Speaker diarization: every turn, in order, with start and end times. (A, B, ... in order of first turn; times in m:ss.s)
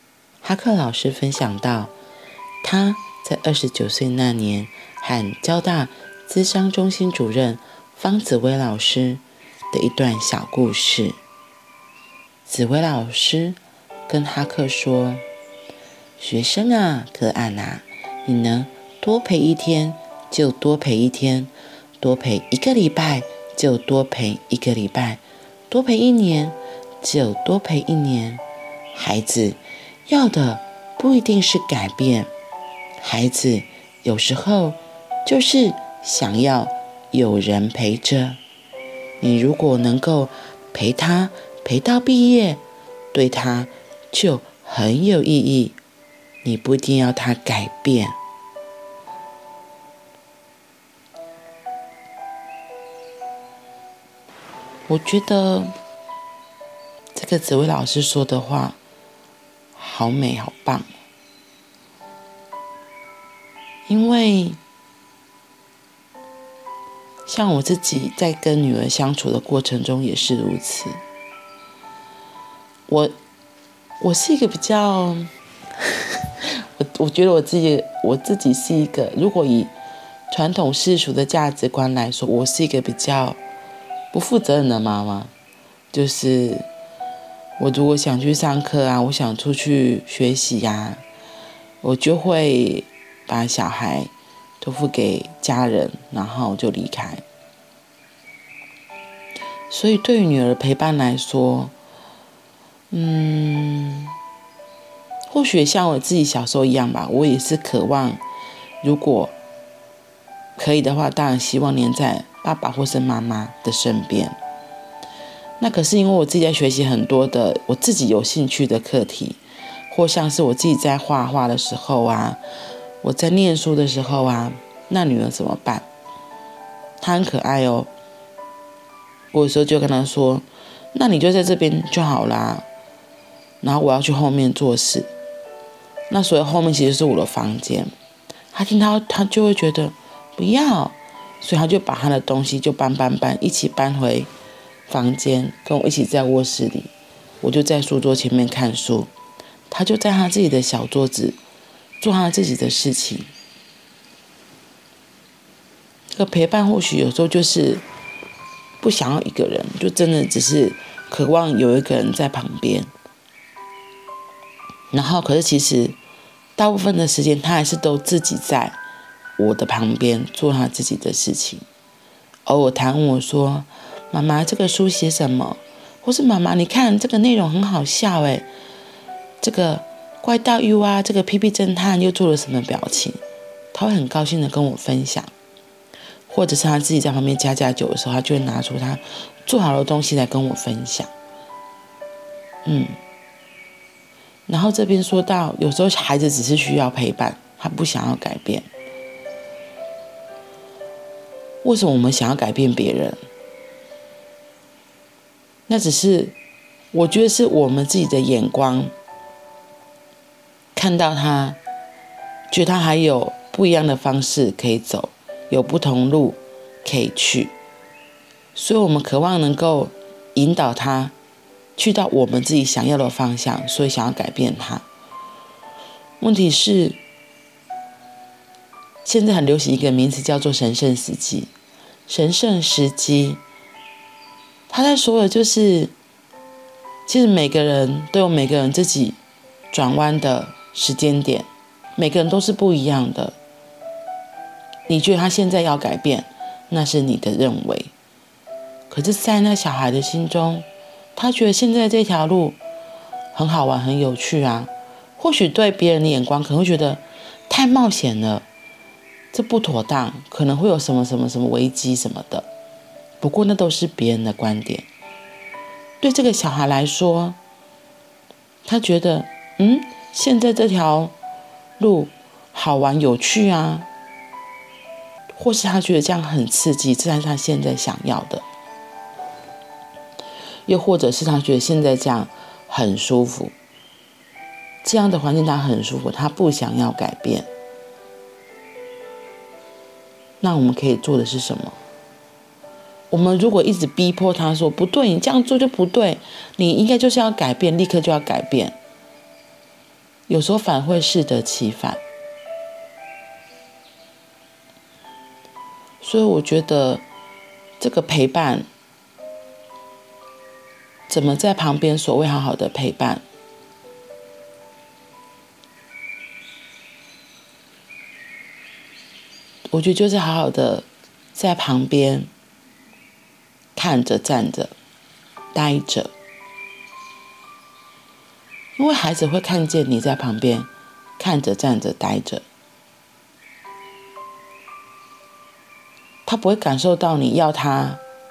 0:00.4-0:01.9 A
0:02.6-0:11.2 A
0:12.4-0:15.2 A
0:16.2-0:32.3 A
0:33.0-0:38.4 A
0:39.2-0:42.6 A
0:43.1-0:45.8 A
0:46.4-0:48.2 A
0:54.9-0:55.7 A
0:57.1-0:58.8 A
0:59.7-1:00.9 A
1:03.9-1:04.6 A
1:07.3-1:11.0 A
1:12.9-1:13.1 A
1:14.0-1:15.3 A
1:16.0-1:19.7 A
1:20.3-1:23.4 A
1:24.1-1:25.3 A
1:25.9-1:26.7 A
1:27.6-1:31.0 A
1:31.8-1:37.2 A
1:39.7-1:41.7 A
1:42.9-1:44.1 A
1:45.3-1:48.2 A
1:48.8-1:49.3 A
1:50.6-1:54.4 A
1:55.6-1:59.4 A
1:59.9-2:02.4 A
2:03.0-2:05.9 A
2:07.0-2:07.9 A
2:09.3-2:12.7 A
2:13.6-2:15.1 A
2:16.1-2:17.9 A
2:18.5-2:24.3 A
2:24.9-2:26.9 A
2:27.4-2:29.1 A
2:29.7-2:31.4 A
2:32.0-2:33.3 A
2:36.1-2:37.8 A
2:38.8-2:42.9 A
2:44.9-2:46.0 A
2:46.6-2:48.8 A
2:49.4-2:51.6 A
2:52.5-2:58.5 A
2:59.4-3:03.2 A
3:03.7-3:05.3 A
3:06.3-3:11.1 A
3:12.6-3:13.0 A
3:14.5-3:18.7 A
3:21.6-3:23.2 A
3:25.7-3:26.4 A
3:26.9-3:28.9 A
3:30.8-3:31.6 A
3:32.5-3:37.5 A
3:38.6-3:41.2 A
3:41.8-3:44.8 A
3:46.2-3:47.0 A
3:49.0-3:51.5 A
3:52.1-3:53.4 A
3:54.7-3:55.9 A
3:57.1-3:59.2 A
3:59.7-4:03.3 A
4:04.9-4:07.9 A
4:08.9-4:12.6 A
4:13.3-4:18.4 A
4:19.3-4:22.5 A
4:23.2-4:24.9 A
4:26.0-4:27.4 A
4:28.6-4:31.1 A
4:31.8-4:33.9 A
4:35.3-4:38.4 A
4:40.6-4:43.5 A
4:44.8-4:47.5 A
4:50.4-4:51.8 A
4:53.1-4:58.8 A
5:00.3-5:02.0 A
5:06.0-5:07.0 A
5:07.8-5:08.7 A
5:11.1-5:13.2 A
5:19.7-5:22.3 A
5:23.8-5:24.7 A
5:25.5-5:26.1 A
5:28.8-5:32.4 A
5:36.2-5:38.0 A